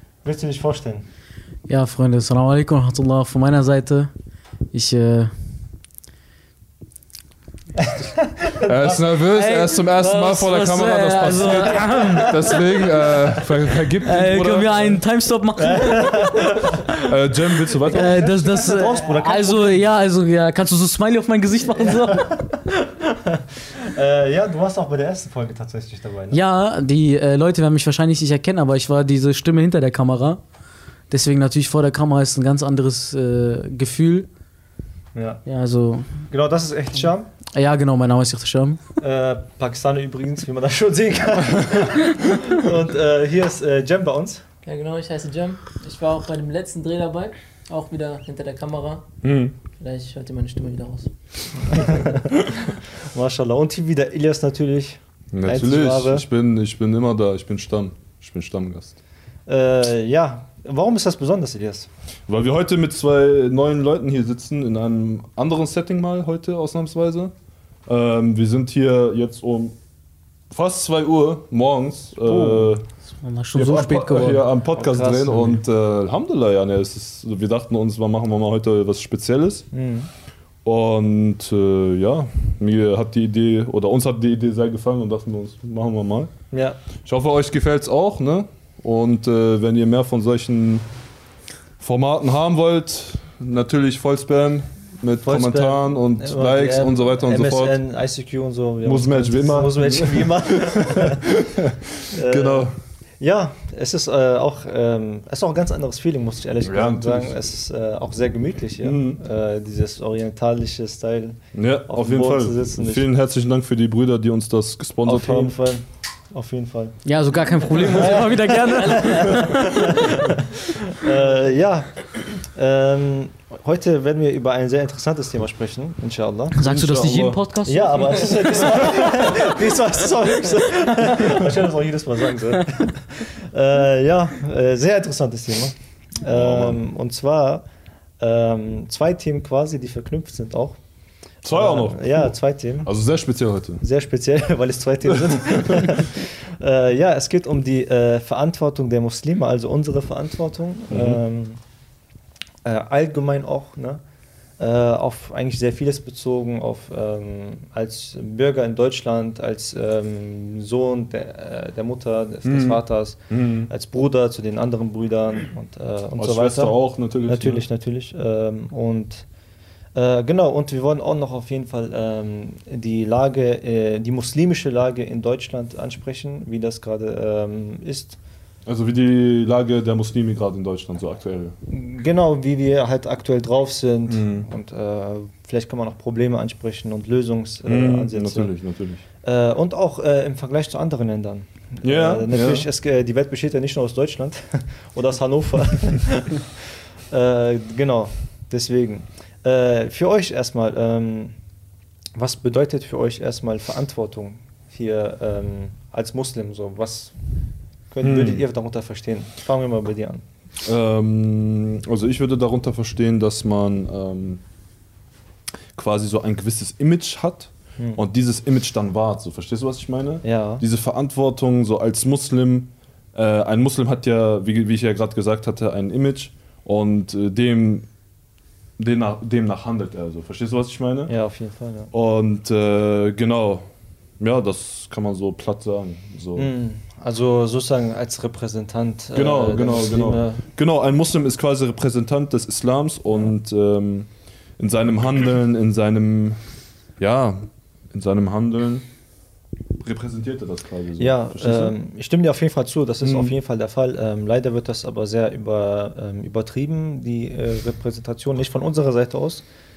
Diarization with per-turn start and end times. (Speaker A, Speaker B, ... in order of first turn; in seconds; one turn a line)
Speaker A: 0.2-1.0
Speaker B: 1.7-4.1
Speaker B: 4.7-5.3
Speaker A: 7.8-9.1
Speaker C: 8.6-15.0
Speaker B: 9.3-12.8
Speaker A: 11.9-12.8
Speaker B: 14.0-16.7
Speaker A: 15.6-16.8
Speaker C: 17.0-18.2
Speaker A: 17.8-19.8
Speaker B: 17.9-22.5
Speaker A: 21.7-26.4
Speaker B: 26.3-30.4
Speaker B: 31.1-34.3
Speaker A: 35.1-35.4
Speaker B: 35.5-36.2
Speaker A: 36.3-37.3
Speaker B: 37.5-38.8
Speaker A: 39.0-44.4
Speaker D: 44.6-49.1
Speaker C: 49.2-49.5
Speaker D: 49.8-51.1
Speaker D: 51.6-51.9
Speaker A: 51.7-52.4
Speaker A: 53.0-56.2
Speaker C: 55.3-59.0
Speaker A: 59.5-61.9
Speaker C: 62.3-67.3
Speaker C: 67.8-69.8
Speaker C: 70.5-72.8
Speaker A: 72.2-72.8
Speaker B: 73.2-74.4
Speaker C: 73.5-79.7
Speaker A: 74.7-75.6
Speaker A: 79.7-80.1
Speaker C: 80.6-86.3
Speaker A: 86.5-86.8
Speaker C: 87.0-90.8
Speaker C: 91.8-97.8
Speaker A: 95.2-101.4
Speaker C: 98.8-102.8
Speaker A: 102.1-113.0
Speaker C: 106.6-107.3
Speaker C: 108.8-109.2
Speaker C: 111.5-115.5
Speaker A: 115.0-117.0
Speaker B: 117.0-119.7
Speaker A: 117.7-126.5
Speaker B: 126.5-129.2
Speaker C: 126.6-127.4
Speaker A: 127.7-137.6
Speaker C: 136.2-136.8
Speaker A: 138.2-140.8
Speaker C: 141.4-143.8
Speaker A: 141.4-142.9
Speaker A: 143.8-151.6
Speaker C: 145.3-145.7
Speaker C: 150.9-151.2
Speaker A: 152.6-154.0
Speaker A: 154.6-169.2
Speaker C: 162.4-163.7
Speaker C: 166.2-167.6
Speaker A: 169.9-178.2
Speaker C: 178.7-181.6
Speaker A: 181.7-188.5
Speaker C: 184.1-184.5
Speaker C: 187.6-189.0
Speaker A: 189.2-196.5
Speaker C: 191.8-192.7
Speaker A: 197.1-201.3
Speaker A: 202.1-207.1
Speaker A: 207.9-210.2
Speaker C: 208.0-208.4
Speaker C: 210.6-214.4
Speaker C: 215.7-227.9
Speaker A: 220.2-220.6
Speaker C: 228.8-231.1
Speaker A: 231.1-231.9
Speaker C: 231.9-233.7
Speaker C: 234.2-236.5
Speaker A: 236.3-240.4
Speaker C: 239.1-246.4
Speaker C: 247.0-248.8
Speaker C: 249.8-251.7
Speaker A: 251.0-259.4
Speaker C: 253.0-253.3